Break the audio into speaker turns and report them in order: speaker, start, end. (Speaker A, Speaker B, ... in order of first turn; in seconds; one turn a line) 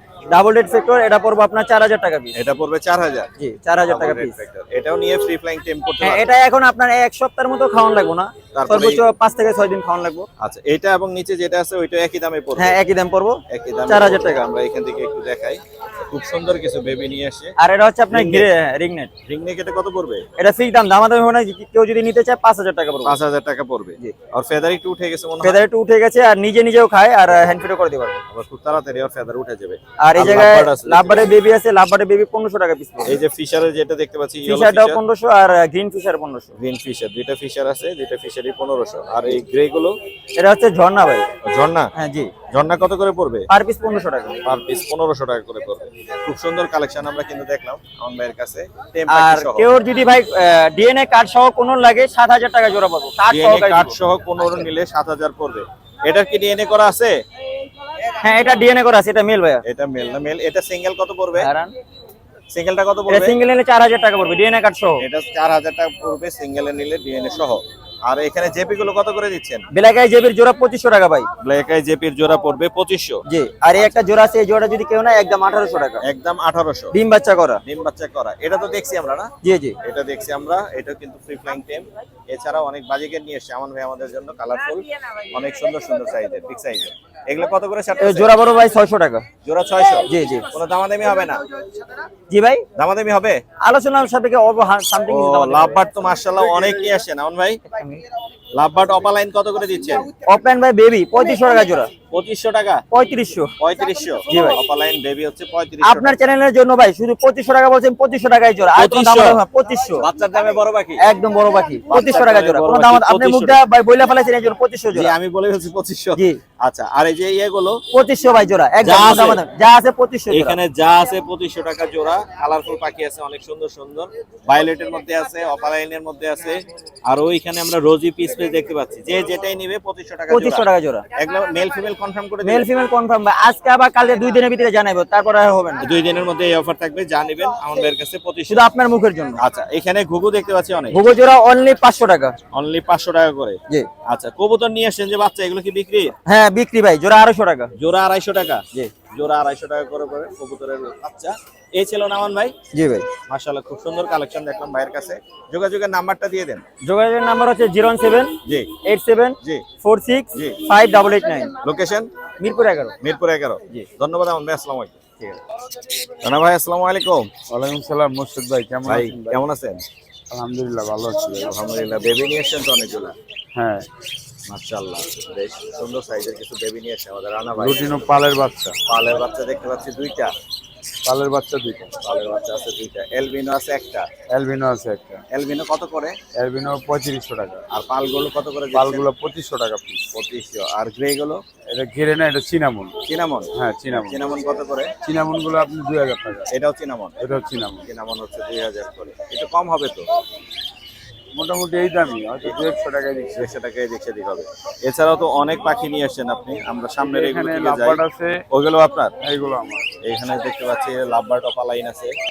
Speaker A: 0.3-2.4
Speaker B: 2.3-3.3
Speaker A: 3.4-4.4
Speaker B: 3.9-6.3
Speaker A: 6.0-10.3
Speaker B: 8.5-9.1
Speaker B: 10.4-12.7
Speaker A: 12.6-14.4
Speaker B: 13.5-17.5
Speaker A: 17.6-19.1
Speaker B: 18.1-18.5
Speaker B: 19.3-20.2
Speaker A: 20.4-23.2
Speaker B: 23.0-25.6
Speaker A: 25.4-28.2
Speaker B: 28.3-31.3
Speaker A: 30.0-33.2
Speaker B: 33.0-35.0
Speaker A: 34.4-36.5
Speaker B: 36.6-39.9
Speaker A: 40.4-41.3
Speaker B: 41.4-41.9
Speaker A: 42.0-42.3
Speaker B: 42.5-43.5
Speaker A: 43.5-44.4
Speaker B: 44.4-49.7
Speaker A: 49.1-54.7
Speaker B: 53.3-57.1
Speaker A: 58.2-59.6
Speaker B: 59.6-61.5
Speaker A: 61.3-61.7
Speaker B: 62.5-63.4
Speaker A: 63.1-65.0
Speaker B: 65.0-69.6
Speaker A: 69.7-71.3
Speaker B: 71.4-73.2
Speaker A: 73.3-76.0
Speaker B: 76.0-76.9
Speaker A: 76.9-77.6
Speaker B: 77.6-79.3
Speaker A: 79.4-79.8
Speaker B: 79.8-88.3
Speaker A: 88.0-89.3
Speaker B: 89.4-91.4
Speaker A: 90.1-90.5
Speaker A: 92.3-92.6
Speaker B: 92.8-93.4
Speaker A: 93.6-95.8
Speaker B: 95.1-97.6
Speaker A: 97.7-98.0
Speaker B: 98.5-100.1
Speaker A: 100.2-101.9
Speaker B: 102.1-102.8
Speaker A: 102.9-103.5
Speaker B: 103.6-106.2
Speaker A: 104.3-104.6
Speaker A: 105.8-110.1
Speaker B: 108.7-109.4
Speaker B: 110.0-111.0
Speaker A: 111.0-115.1
Speaker B: 111.9-113.6
Speaker B: 114.9-117.8
Speaker A: 116.1-116.4
Speaker A: 117.9-120.6
Speaker B: 118.8-119.4
Speaker B: 120.3-130.6
Speaker A: 130.3-131.0
Speaker B: 131.2-132.7
Speaker A: 132.4-135.8
Speaker B: 135.8-138.6
Speaker A: 138.5-139.4
Speaker B: 139.4-141.0
Speaker A: 140.9-142.3
Speaker B: 142.5-146.1
Speaker A: 146.3-147.7
Speaker B: 147.8-152.5
Speaker A: 152.7-153.1
Speaker B: 153.3-156.6
Speaker A: 156.8-161.6
Speaker B: 158.4-158.8
Speaker B: 159.4-159.7
Speaker B: 160.3-160.6
Speaker B: 161.6-162.1
Speaker A: 162.4-162.9
Speaker B: 163.0-165.0
Speaker B: 166.2-167.3
Speaker C: 167.5-169.4
Speaker B: 168.8-169.8
Speaker C: 170.3-171.5
Speaker B: 171.4-173.1
Speaker C: 173.6-173.9
Speaker B: 174.5-178.0
Speaker C: 177.6-178.8
Speaker B: 178.9-180.3
Speaker C: 181.0-181.9
Speaker B: 182.0-184.1
Speaker C: 184.3-185.2
Speaker B: 185.3-186.2
Speaker C: 186.4-187.6
Speaker B: 187.7-189.1
Speaker C: 188.7-190.1
Speaker B: 190.1-191.4
Speaker C: 191.7-192.9
Speaker B: 193.1-194.9
Speaker C: 193.6-194.2
Speaker C: 195.0-196.5
Speaker B: 196.5-197.1
Speaker C: 197.2-197.8
Speaker B: 197.8-200.0
Speaker C: 201.3-203.5
Speaker B: 203.3-209.1
Speaker C: 207.0-208.4
Speaker C: 209.2-209.9
Speaker B: 210.0-212.1